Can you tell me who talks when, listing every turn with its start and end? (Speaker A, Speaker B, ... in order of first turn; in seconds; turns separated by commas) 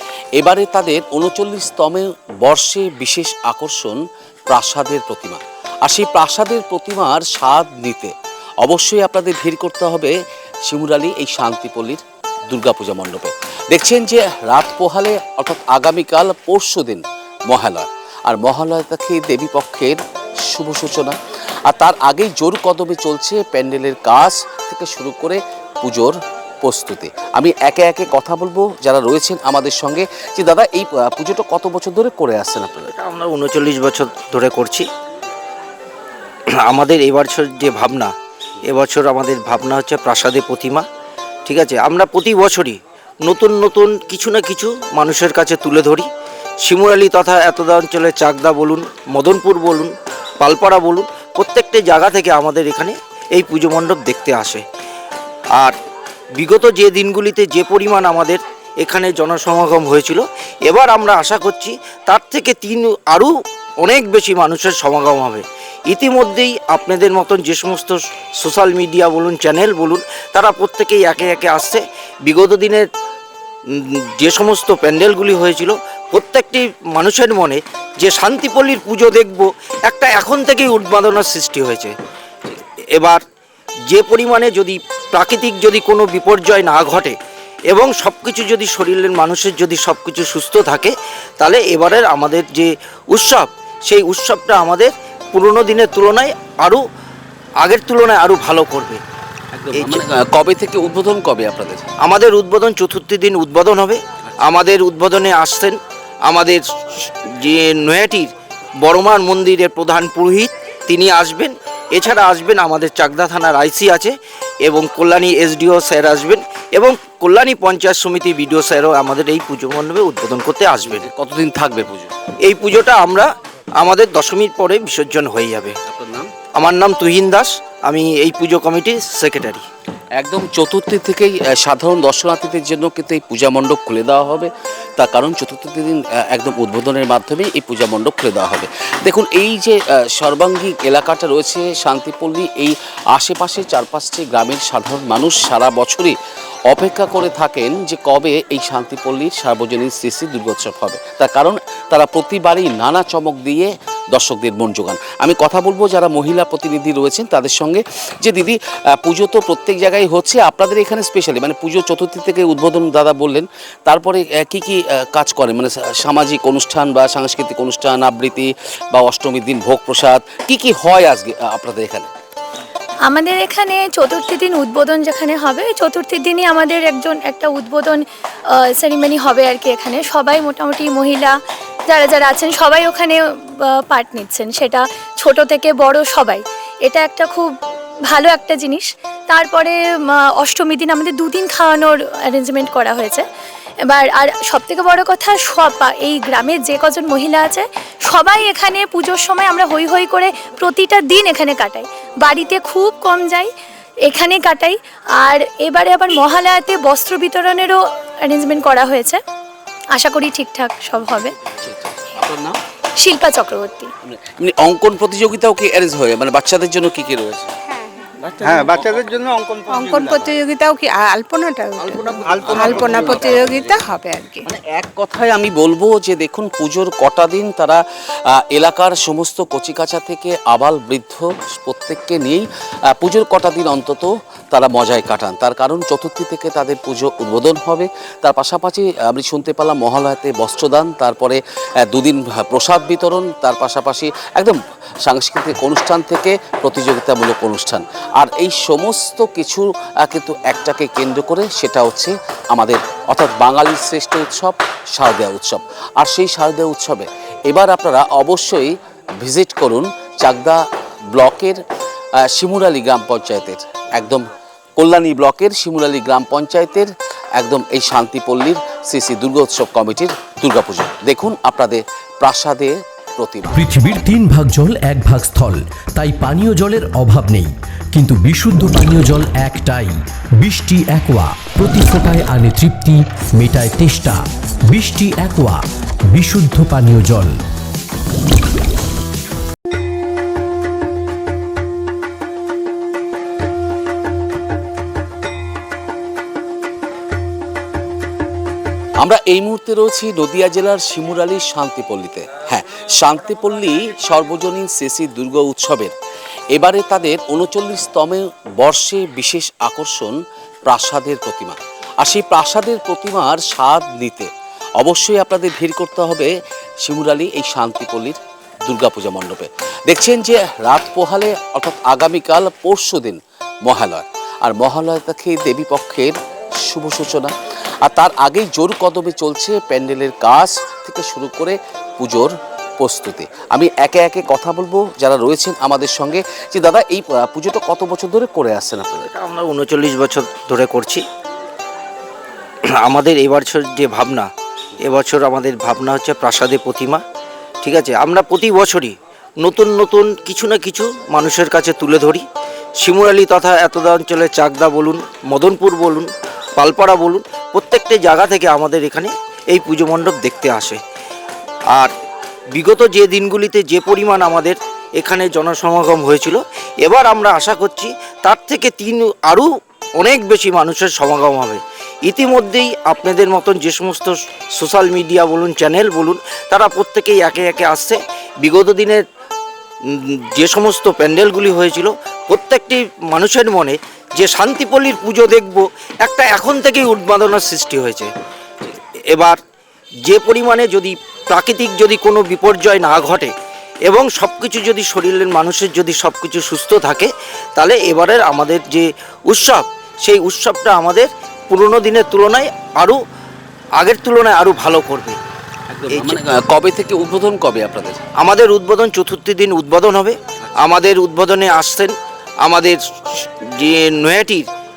Speaker A: 0.3-4.0, Speaker A: 4.5-10.1, Speaker A: 10.7-32.9, Speaker B: 32.9-34.8, Speaker B: 36.7-38.1, Speaker B: 38.7-40.8, Speaker B: 41.5-46.0, Speaker B: 46.6-54.6, Speaker B: 56.4-63.3, Speaker B: 63.8-72.8, Speaker B: 73.7-81.9, Speaker B: 82.5-83.2, Speaker B: 83.9-87.1, Speaker B: 87.7-96.8, Speaker B: 97.6-99.0, Speaker A: 99.5-101.8, Speaker B: 99.7-100.0, Speaker B: 102.0-105.8, Speaker B: 106.3-108.3, Speaker B: 108.8-114.1, Speaker B: 114.6-121.1, Speaker A: 120.9-122.1, Speaker B: 122.4-123.3, Speaker B: 123.8-125.7, Speaker A: 125.8-126.3, Speaker B: 126.6-129.6, Speaker A: 130.2-146.1, Speaker A: 146.7-172.1, Speaker C: 173.0-181.3, Speaker C: 181.9-187.5, Speaker C: 188.1-193.2, Speaker C: 193.8-203.5, Speaker C: 204.0-209.2, Speaker C: 209.9-211.3, Speaker A: 211.6-212.6, Speaker C: 213.0-213.9, Speaker A: 214.0-217.5, Speaker D: 217.7-218.7, Speaker E: 218.4-220.2, Speaker D: 219.7-224.5, Speaker E: 222.2-223.0, Speaker A: 222.5-223.5, Speaker A: 224.5-260.6, Speaker A: 261.1-261.6, Speaker A: 262.3-264.2, Speaker A: 264.8-273.6, Speaker F: 273.5-285.6, Speaker F: 286.1-287.3, Speaker A: 299.0-305.9, Speaker A: 306.5-310.1, Speaker A: 310.6-314.3, Speaker A: 314.8-316.3, Speaker A: 316.8-339.1, Speaker B: 339.1-341.0, Speaker B: 342.8-344.3, Speaker B: 344.8-347.0, Speaker B: 347.6-352.2, Speaker B: 352.8-360.8, Speaker B: 362.5-379.0, Speaker B: 379.9-388.1, Speaker B: 388.6-389.4, Speaker B: 390.1-393.3, Speaker B: 393.9-403.0, Speaker B: 403.8-405.2, Speaker A: 405.7-408.0, Speaker B: 405.9-406.1, Speaker B: 408.2-414.4